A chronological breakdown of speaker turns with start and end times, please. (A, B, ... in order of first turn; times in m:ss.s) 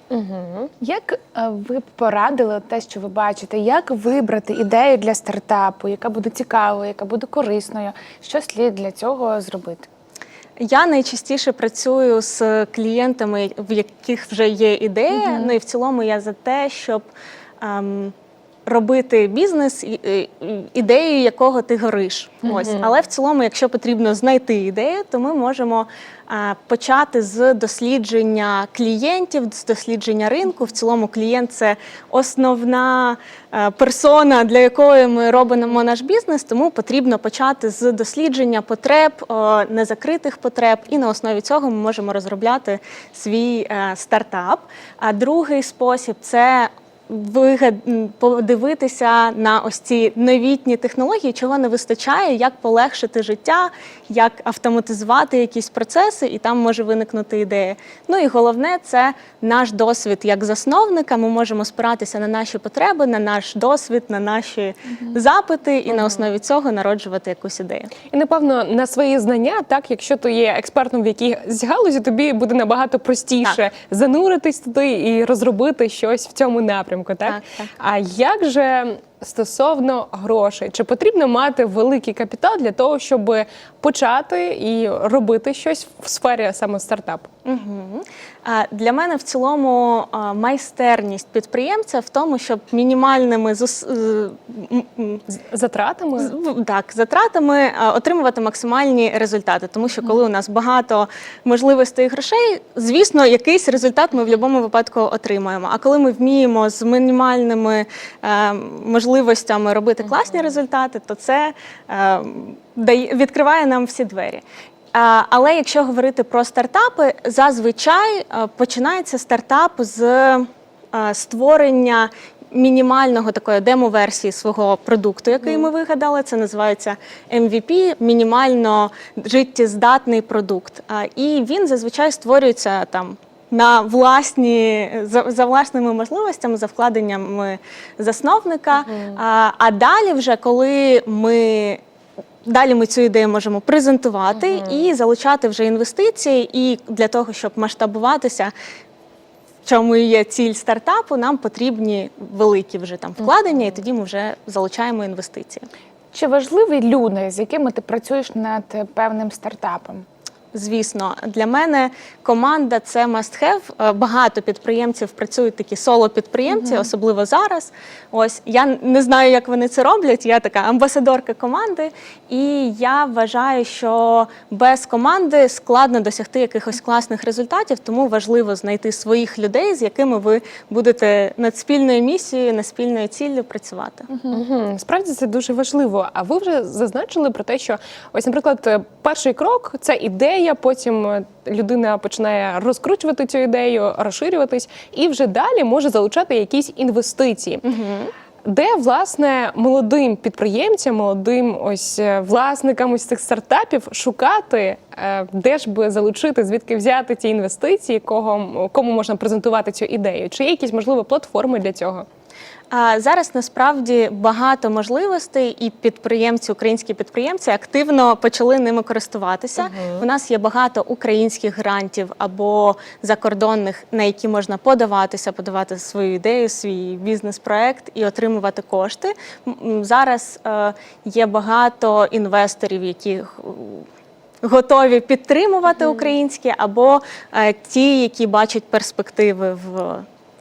0:00.1-0:00.7 A
0:00.8-0:09.9 B
0:10.6-0:17.1 C
0:17.6-0:18.1 C
0:18.7-1:07.9 C
0:22.5-0:22.9 A
1:05.9-1:06.2 A
1:08.1-1:27.3 A
1:17.2-1:17.7 C
1:27.4-1:35.2 C
1:35.3-1:36.3 A
1:36.2-2:21.8 C
2:18.8-2:19.2 A
2:22.4-2:28.5 C
2:24.4-2:24.8 A
2:29.6-2:35.7 C
2:36.1-2:40.1 B
2:40.5-3:04.1 C
3:04.3-3:17.6 A
3:17.6-3:18.1 C
3:18.4-3:32.1 A
3:32.7-3:53.9 C
3:39.6-3:40.0 A
3:54.4-4:00.0 C